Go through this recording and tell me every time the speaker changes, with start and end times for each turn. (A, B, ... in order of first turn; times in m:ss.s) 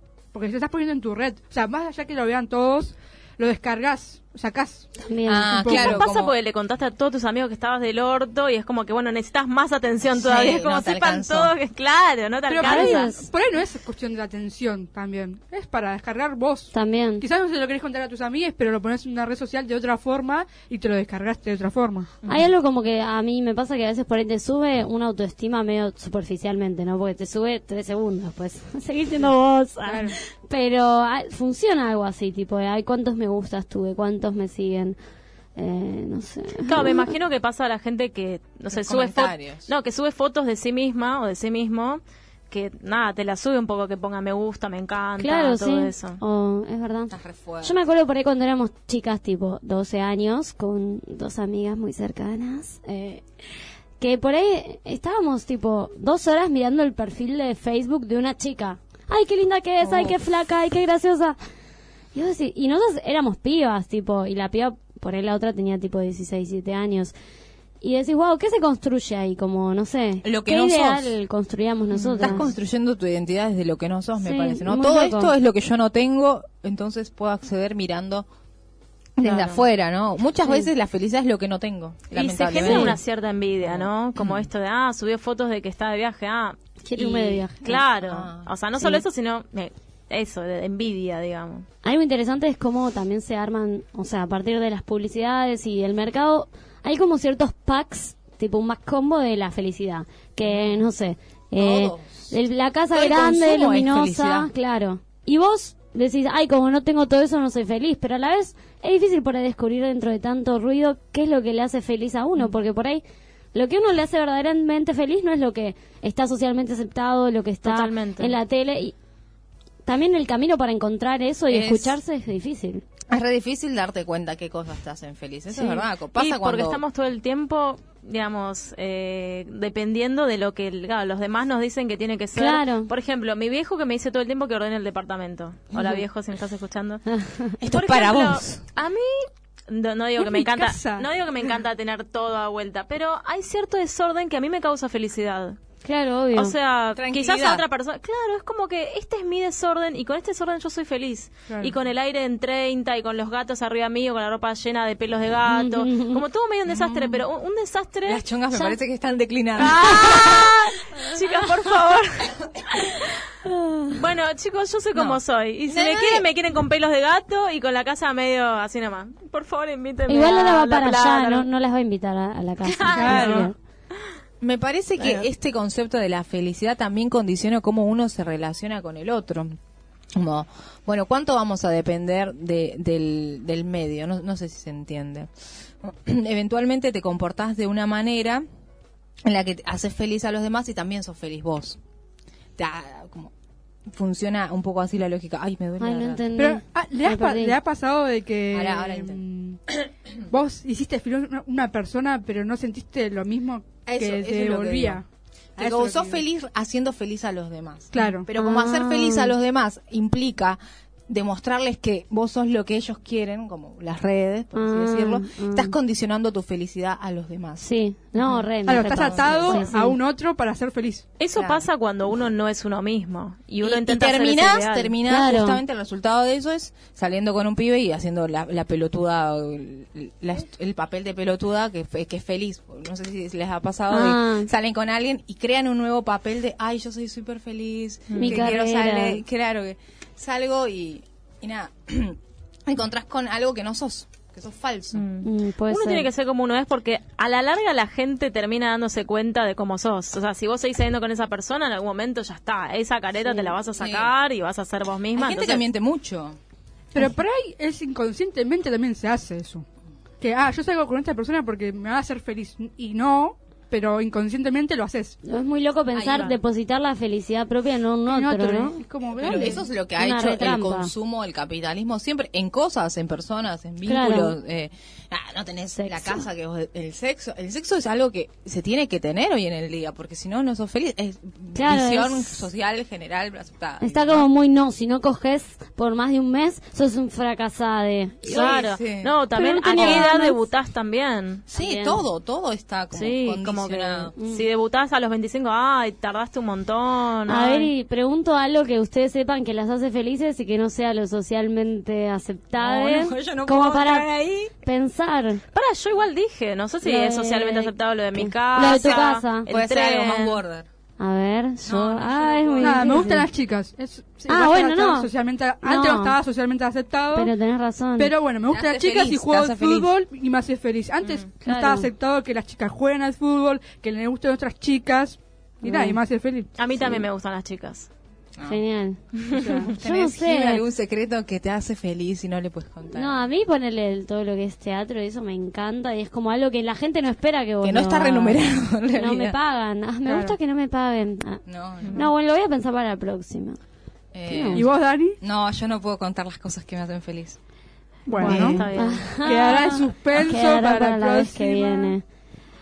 0:00.3-0:04.9 A
0:05.0-0:05.8 B
0:05.2-0:06.3 C
0:05.6-0:05.9 A
0:05.7-0:13.1 D
0:10.1-0:11.5 C
0:12.5-0:22.1 A
0:12.6-0:13.2 B
0:16.7-0:17.2 B
0:22.2-0:22.5 D
0:22.3-0:35.0 B
0:29.8-0:30.2 A
0:35.6-0:37.1 B
0:36.6-0:46.2 D
0:38.7-0:39.7 C
0:45.2-0:53.2 B
0:47.1-0:47.8 C
0:54.0-1:01.4 B
0:59.8-1:00.2 C
1:02.1-1:07.1 B
1:07.8-1:12.5 B
1:10.2-1:11.1 C
1:11.9-1:12.5 D
1:12.2-1:18.2 C
1:14.2-1:15.3 B
1:19.2-1:23.0 C
1:19.2-1:19.6 D
1:20.4-1:20.7 B
1:22.1-1:31.6 D
1:22.6-1:23.0 B
1:23.6-1:24.5 C
1:26.8-1:27.7 B
1:27.6-1:28.5 C
1:31.8-1:53.0 B
1:40.4-1:40.8 C
1:41.6-1:42.3 C
1:42.9-1:44.5 C
1:53.5-1:58.9 B
1:57.6-1:58.4 D
1:59.8-2:02.8 B
2:01.5-2:02.0 C
2:03.1-2:06.8 C
2:06.1-2:17.0 D
2:12.3-2:12.9 B
2:15.7-2:16.0 B
2:17.1-2:17.6 B
2:17.6-2:18.6 C
2:17.7-2:25.6 D
2:20.2-2:21.5 A
2:25.8-2:26.5 B
2:26.3-2:38.2 D
2:27.0-2:27.6 C
2:31.5-2:31.7 A
2:35.5-2:36.2 B
2:36.7-2:37.2 C
2:38.0-2:40.7 C
2:39.6-2:42.4 D
2:39.6-2:40.6 B
2:43.4-2:43.9 B
2:43.9-2:51.4 D
2:44.9-2:46.2 C
2:50.1-2:53.6 B
2:52.7-2:53.4 D
2:52.9-2:53.5 A
2:54.4-2:59.5 C
2:55.0-2:55.3 D
3:00.2-3:05.3 C
3:05.8-3:08.4 C
3:09.2-3:11.8 C
3:12.6-3:13.3 C
3:13.9-3:16.2 C
3:15.8-3:17.6 B
3:16.4-3:19.6 A
3:18.5-3:19.2 C
3:20.2-3:25.0 A
3:23.8-3:25.0 C
3:25.6-3:26.2 A
3:25.6-3:37.7 C
3:27.9-3:28.3 A
3:28.4-3:29.3 B
3:34.5-3:35.8 B
3:37.6-3:40.0 B
3:38.6-3:39.7 C
3:38.6-3:41.0 A
3:41.2-3:45.0 D
3:41.3-3:41.7 C
3:43.6-4:02.2 C
3:45.0-3:45.6 B
3:53.9-3:54.5 B
3:58.1-3:58.5 D
3:58.1-3:59.2 B
4:02.7-4:05.0 C
4:04.9-4:15.6 D
4:05.2-4:06.1 B
4:13.8-4:14.1 C
4:15.1-4:16.4 C
4:16.9-4:19.6 A
4:20.2-4:25.2 A
4:25.2-4:30.9 B
4:25.9-4:26.4 C
4:28.1-4:29.6 A
4:29.1-4:44.3 C
4:33.8-4:34.4 B
4:35.8-4:36.2 B
4:41.5-4:42.5 B
4:43.8-4:48.7 B
4:48.3-4:51.4 D
4:48.3-4:49.1 C
4:49.3-4:50.4 B
4:49.8-4:50.1 C
4:51.5-4:54.1 C
4:51.5-4:52.0 B
4:52.9-4:57.7 D
4:54.2-4:54.4 B
4:57.3-5:05.4 B
5:02.6-5:04.5 C
5:05.5-5:10.4 D
5:06.8-5:09.5 B
5:08.6-5:10.7 C
5:11.0-5:13.3 B
5:11.6-5:13.1 C
5:12.6-5:17.3 A
5:14.3-5:15.1 B
5:15.6-5:16.2 B
5:17.1-5:18.1 B
5:18.0-5:26.5 A
5:18.5-5:19.9 C
5:21.4-5:21.9 B
5:25.6-5:26.0 B
5:26.6-5:27.9 D
5:28.4-5:29.0 B
5:29.3-5:29.8 A
5:29.7-5:30.6 B
5:29.7-5:33.2 C
5:32.9-5:43.6 B
5:37.6-5:39.4 C
5:40.0-5:40.4 A
5:41.4-5:42.1 C
5:41.8-5:42.1 D
5:44.1-5:44.7 C
5:44.2-5:44.6 B
5:44.5-5:45.2 A
5:45.2-5:47.4 C
5:48.1-5:48.7 A
5:48.2-5:49.6 D
5:48.2-5:52.0 B
5:48.2-5:48.6 C
5:49.2-5:52.0 A